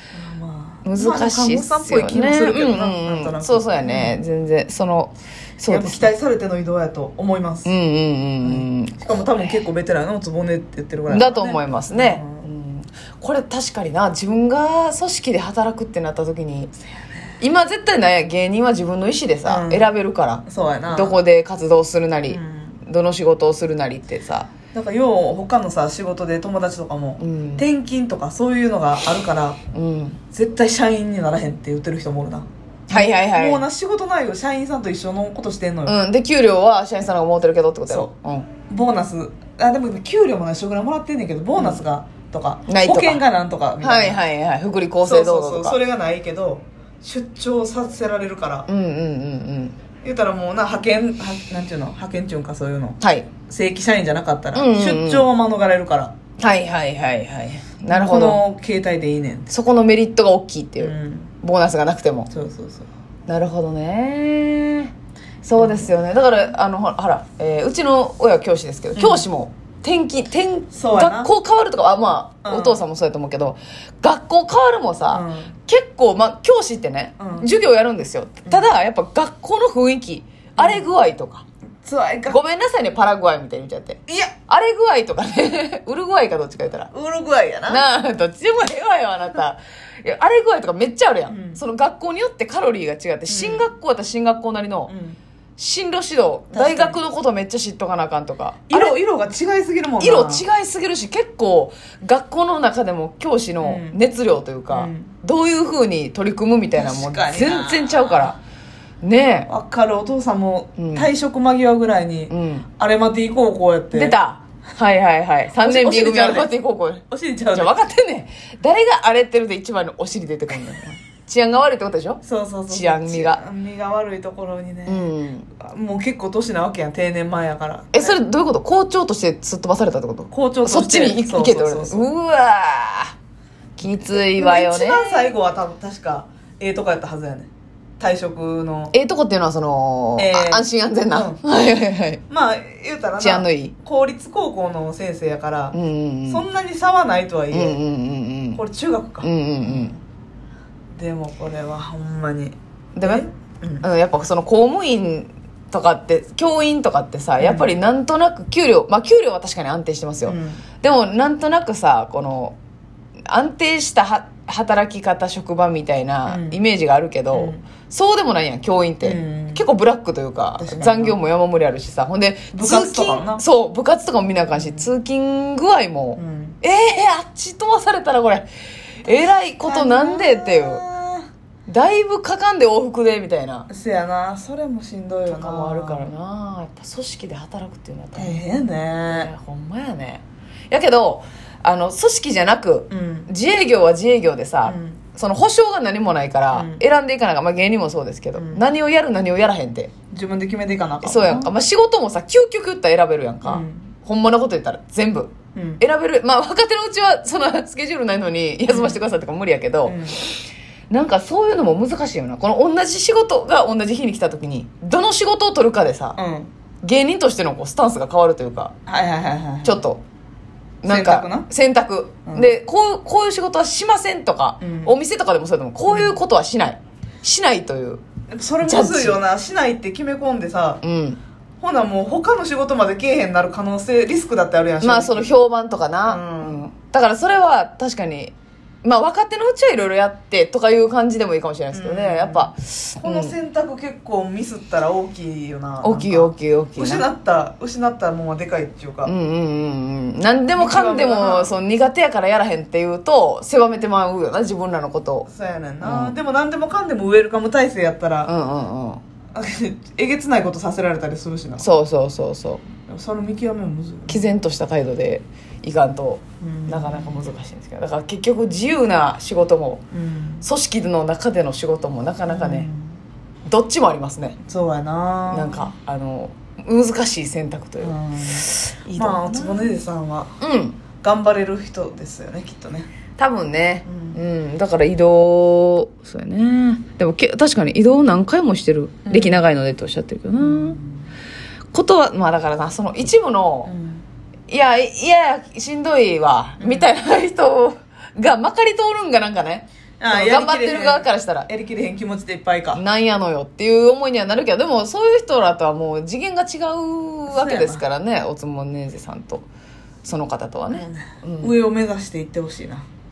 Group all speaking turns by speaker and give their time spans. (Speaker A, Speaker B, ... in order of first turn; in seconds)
Speaker A: 0.1-4.2, 5.7-7.7, 8.4-12.4, 19.4-19.9, 20.4-21.2, 22.3-22.8, 24.7-29.6, 30.3-36.0, 38.7-44.2, 45.0-48.7, 50.0-56.1, 57.9-59.5, 60.8-61.3, 62.3-62.9, 65.6-65.9, 69.0-69.3, 70.7-71.3, 72.4-72.8, 75.1-75.5, 77.2-77.5, 80.6-80.9, 81.8-82.4, 84.1-84.3, 86.9-87.9, 91.3-91.6, 93.3-93.7, 94.9-95.2, 96.5-97.0, 98.7-100.4, 103.6-104.0, 104.7-105.1, 106.7-108.3, 109.5-114.2, 115.6-116.5, 117.1-117.8, 122.2-128.2, 130.3-132.1, 133.9-138.9, 140.2-141.4, 142.3-145.8, 146.3-147.8, 148.5-150.0, 150.9-153.8, 157.4-157.7, 160.2-160.6, 166.2-166.6, 167.3-167.6, 169.0-169.6, 170.6-171.2, 172.5-173.4, 174.5-174.9, 176.2-176.6, 179.6-181.2, 183.7-186.1, 188.2-189.3, 192.9-193.3, 194.6-195.0, 196.5-196.8, 198.3-198.6, 200.1-201.5, 203.4-203.9, 205.5-205.8, 208.7-209.0, 209.8-210.2, 216.2-216.5, 218.9-219.8, 220.8-221.5, 224.6-224.9, 225.9-226.2, 228.3-230.8, 231.6-235.3, 236.1-236.6, 241.7-249.1, 250.5-251.5, 255.3-258.3, 259.3-261.7, 262.9-264.2, 266.4-267.3, 269.9-270.4, 272.3-272.9, 274.5-275.7, 277.8-280.3, 281.0-282.9, 283.9-284.2, 289.1-289.4, 290.3-291.1, 293.6-294.0, 296.6-296.9, 300.0-302.8, 307.3-307.8, 310.7-312.8
Speaker B: 0.8-6.1, 7.6-9.2, 11.1-16.7, 17.4-24.5, 27.2-27.6, 29.7-30.2, 32.9-33.6, 35.9-38.5, 42.7-43.2, 43.8-45.8, 48.7-49.7, 53.0-53.3, 54.5-55.3, 56.4-58.4, 59.5-62.3, 63.3-64.9, 65.4-81.4, 82.3-86.9, 87.7-94.9, 95.6-98.9, 100.0-108.4, 109.0-109.5, 110.8-111.1, 112.3-112.7, 113.9-123.4, 124.9-125.5, 127.9-133.1, 133.8-135.3, 138.9-142.2, 143.2-143.7, 145.7-146.4, 147.5-148.6, 149.2-149.9, 152.9-153.2, 153.8-162.6, 163.3-178.5, 179.0-180.8, 181.7-183.7, 185.2-199.9, 201.0-210.0, 210.9-216.2, 216.8-218.7, 219.6-220.0, 220.8-228.0, 228.6-229.2, 230.8-231.2, 234.8-243.3, 245.8-247.0, 249.1-255.3, 255.8-256.1, 258.2-259.0, 261.6-262.6, 264.1-269.8, 270.4-272.7, 273.5-274.4, 275.3-277.9, 278.5-279.7, 280.4-280.8, 283.2-290.8, 291.7-293.7, 294.5-301.5, 302.7-309.4, 310.0-311.5